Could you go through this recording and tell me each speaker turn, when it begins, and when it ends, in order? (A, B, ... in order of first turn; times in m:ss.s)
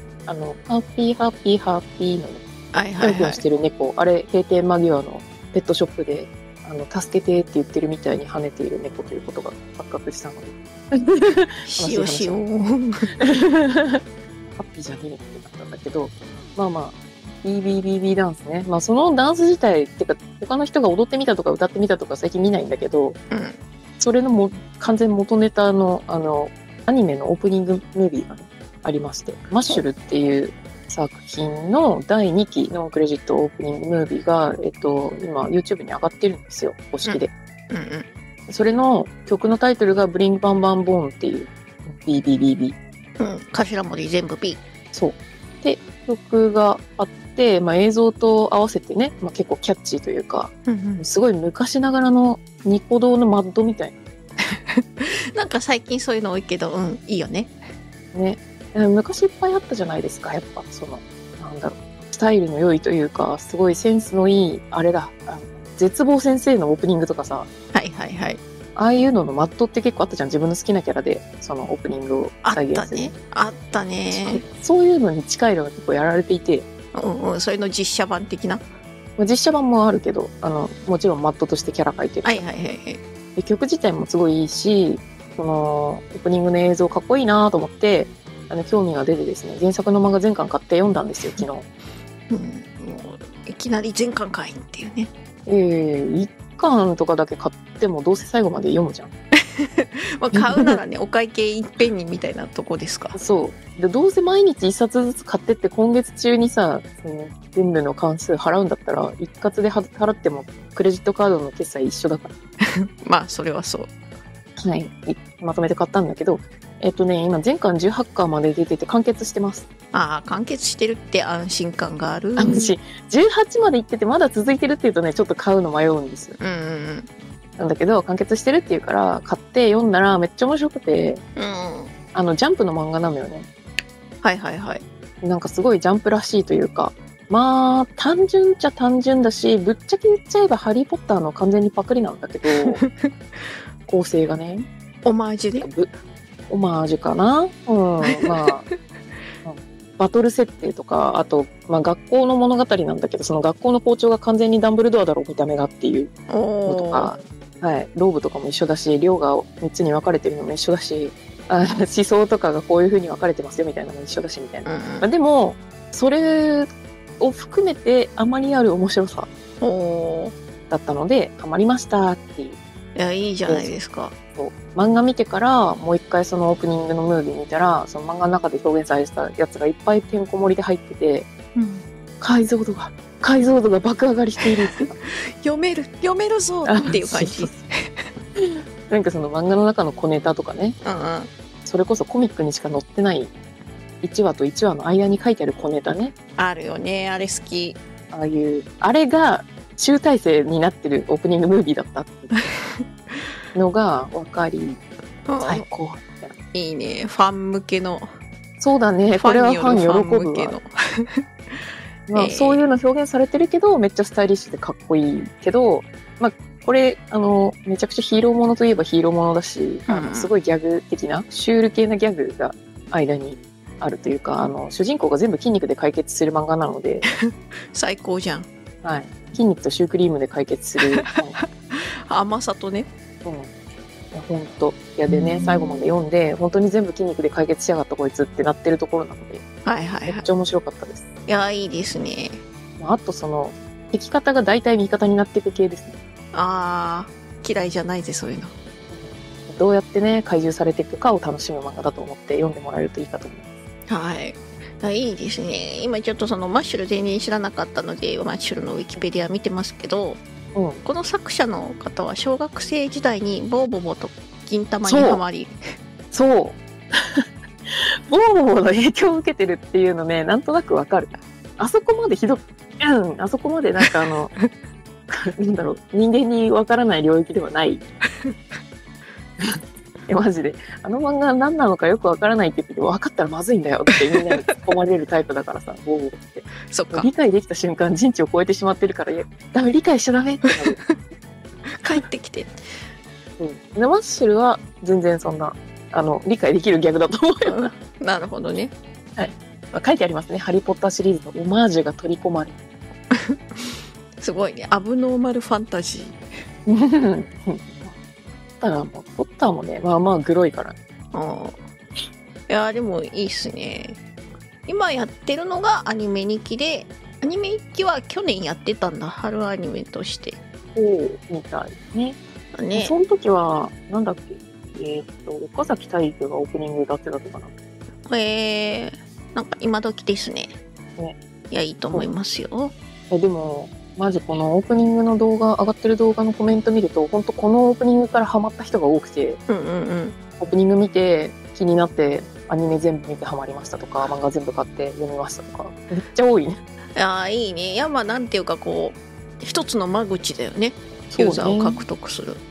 0:00.3-0:02.4 A
0:02.7-0:03.4 B
0:03.0-0:12.4 A
0:11.7-0:13.1 B
0:13.2-0:14.0 A
0:14.6-0:23.2 A
0:23.3-0:23.6 B
0:24.0-0:37.3 A
0:37.0-0:38.1 B
0:38.5-0:42.8 A
0:43.2-0:44.6 B
0:44.9-0:54.0 A
0:50.7-0:51.0 B
0:54.5-0:57.6 B
0:58.1-1:07.5 A
1:07.7-1:08.4 B
1:08.8-1:13.1 A
1:12.4-1:14.4 B
1:14.1-1:16.7 A
1:16.9-1:18.7 B
1:19.2-1:22.4 A
1:22.2-1:23.0 B
1:23.4-1:31.6 A
1:32.3-1:35.1 B
1:35.4-1:39.1 A
1:39.6-1:43.2 B
1:40.3-1:40.8 A
1:43.1-1:52.3 A
1:53.0-1:53.9 B
1:54.6-1:59.6 A
1:59.9-2:02.7 B
2:02.4-2:06.4 A
2:06.4-2:07.1 B
2:07.6-2:11.2 A
2:11.4-2:11.9 B
2:12.1-2:13.5 A
2:14.2-2:14.8 B
2:15.2-2:22.8 A
2:22.5-2:23.1 B
2:23.9-2:24.7 A
2:25.0-2:25.7 B
2:25.6-2:25.9 A
2:26.5-2:28.6 A
2:29.4-2:36.1 A
2:36.3-2:37.2 B
2:36.6-2:49.3 A
2:44.6-2:45.0 B
2:49.6-2:50.3 B
2:50.7-2:52.6 A
2:52.9-2:54.1 B
2:53.4-2:53.7 A
2:54.3-3:01.3 A
3:01.5-3:01.8 B
3:02.2-3:05.0 A
3:05.1-3:07.6 B
3:06.6-3:07.6 A
3:08.4-3:10.8 A
3:10.8-3:11.3 B
3:11.6-3:13.3 A
3:14.0-3:16.1 A
3:16.4-3:17.8 B
3:18.1-3:22.3 A
3:23.5-3:24.8 A
3:25.2-3:25.6 B
3:25.4-3:26.3 A
3:26.5-3:28.1 B
3:28.6-3:30.6 A
3:29.1-3:32.6 B
3:32.1-3:47.1 A
3:39.9-3:40.3 B
3:47.1-3:48.5 B
3:48.8-3:51.4 A
3:51.0-3:52.9 B
3:53.2-3:53.5 A
3:54.1-3:59.4 A
3:55.1-3:55.9 B
3:59.6-4:00.2 B
4:00.0-4:01.0 A
4:01.3-4:02.4 B
4:02.8-4:06.0 A
4:06.3-4:08.5 B
4:08.9-4:13.4 A
4:13.9-4:20.2 B
4:20.5-4:20.8 A
4:20.8-4:25.5 B
4:24.8-4:25.2 A
4:26.1-4:34.3 A
4:35.1-4:37.8 A
4:39.4-4:50.8 A
4:44.2-4:44.5 B
4:46.7-4:47.1 B
4:51.7-4:52.6 B
4:53.4-4:57.7 A
4:57.4-4:58.7 B
4:59.2-5:02.6 A
5:03.1-5:06.2 B
5:06.7-5:08.0 A
5:08.6-5:10.8 A
5:11.1-5:11.6 B
5:12.5-5:14.0 B
5:14.6-5:20.4 B
5:20.7-5:22.2 A
5:22.5-5:22.9 B
5:22.7-5:27.6 A
5:28.1-5:30.6 B
5:31.5-5:32.7 B
5:33.1-5:39.4 A
5:39.5-5:40.2 B
5:40.4-5:46.6 A
5:47.0-5:52.4 B
5:51.1-5:51.8 A